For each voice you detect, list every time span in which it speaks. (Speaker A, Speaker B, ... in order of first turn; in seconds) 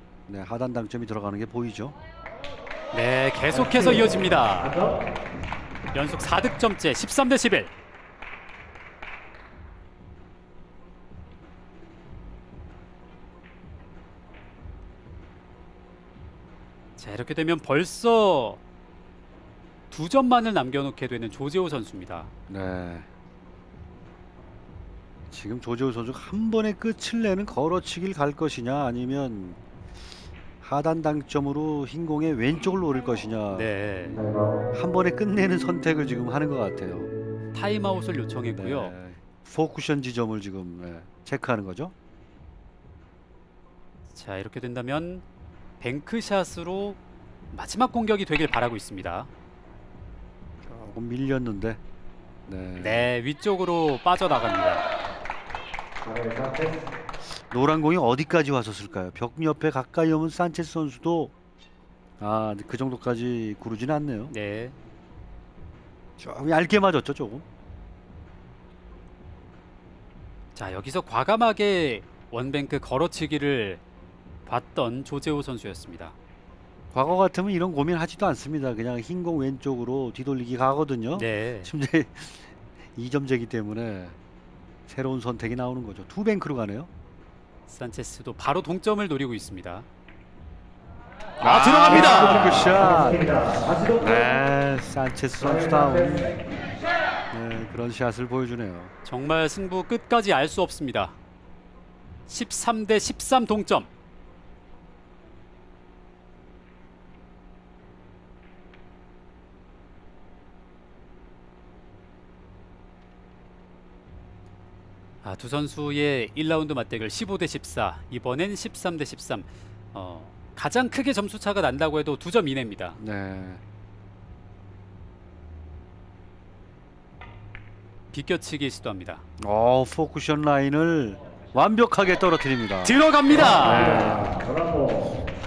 Speaker A: 0.3-1.9, 22.5-23.1, 25.3-29.6, 30.6-33.7, 34.7-37.1, 38.5-41.9, 50.6-51.8, 52.5-53.1, 57.5-61.3, 62.2-64.3, 66.2-67.5, 76.9-84.2, 84.9-86.9, 91.4-96.4, 97.3-98.9, 123.0-123.6, 129.4-134.4
Speaker B: 2.9-4.7, 5.9-7.7, 17.0-18.6, 19.9-22.3, 33.5-34.2, 37.5-38.9, 44.1-45.2, 45.8-47.0, 47.5-49.3, 52.8-54.8, 64.3-64.8, 70.5-73.8, 74.5-76.1, 81.1-81.7, 87.7-89.9, 91.4-92.5, 99.0-101.2, 102.3-103.9, 115.2-123.0, 128.1-129.2, 132.8-134.0
Speaker C: 3.5-4.1, 56.0-56.8, 133.8-135.1